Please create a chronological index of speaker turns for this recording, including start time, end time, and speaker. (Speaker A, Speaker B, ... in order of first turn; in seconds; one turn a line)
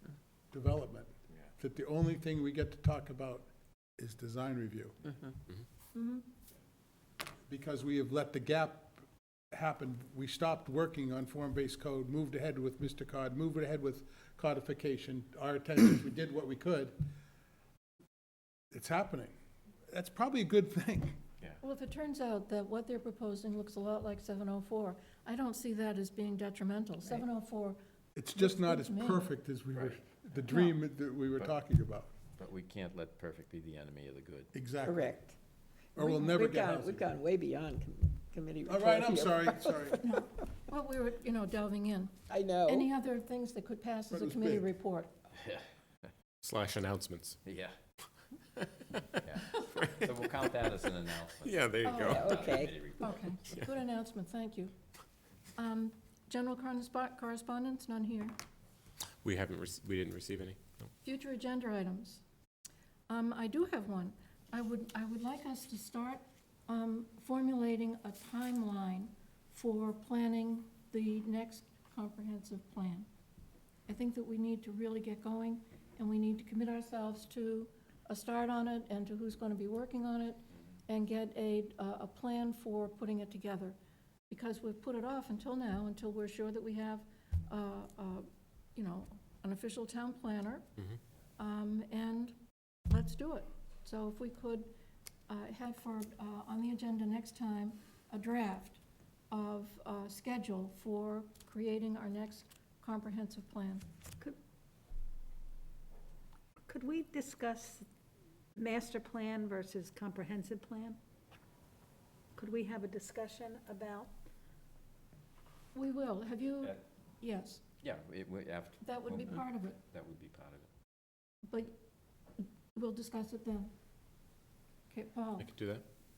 Speaker A: 0.5-5.0
Speaker B: 5.9-6.2
Speaker A: 7.5-17.0
Speaker A: 18.7-19.3
Speaker A: 19.9-21.2
Speaker B: 21.6-27.8
Speaker A: 28.1-32.1
Speaker B: 28.3-29.3
Speaker B: 30.5-30.7
Speaker C: 32.4-34.5
Speaker A: 34.5-35.0
Speaker D: 34.8-35.4
Speaker A: 36.0-37.1
Speaker B: 36.0-36.3
Speaker D: 36.2-40.0
Speaker A: 38.7-40.0
Speaker B: 40.0-45.1
Speaker D: 42.3-42.9
Speaker A: 44.2-44.6
Speaker E: 46.4-47.4
Speaker C: 47.5-47.7
Speaker C: 49.2-53.1
Speaker E: 49.6-50.1
Speaker E: 51.4-52.3
Speaker B: 51.8-54.7
Speaker D: 52.1-52.7
Speaker B: 55.5-58.4
Speaker E: 59.2-60.9
Speaker B: 61.0-62.2
Speaker B: 63.1-73.1
Speaker B: 73.9-83.8
Speaker B: 84.3-90.7
Speaker B: 91.4-92.4
Speaker B: 92.9-94.7
Speaker B: 95.3-103.8
Speaker F: 106.7-107.8
Speaker F: 108.6-111.0
Speaker F: 112.4-114.1
Speaker B: 115.7-117.6
Speaker C: 117.8-120.7
Speaker B: 118.8-119.8
Speaker B: 121.5-121.8
Speaker B: 122.4-123.7
Speaker B: 124.9-125.5
Speaker E: 125.4-125.8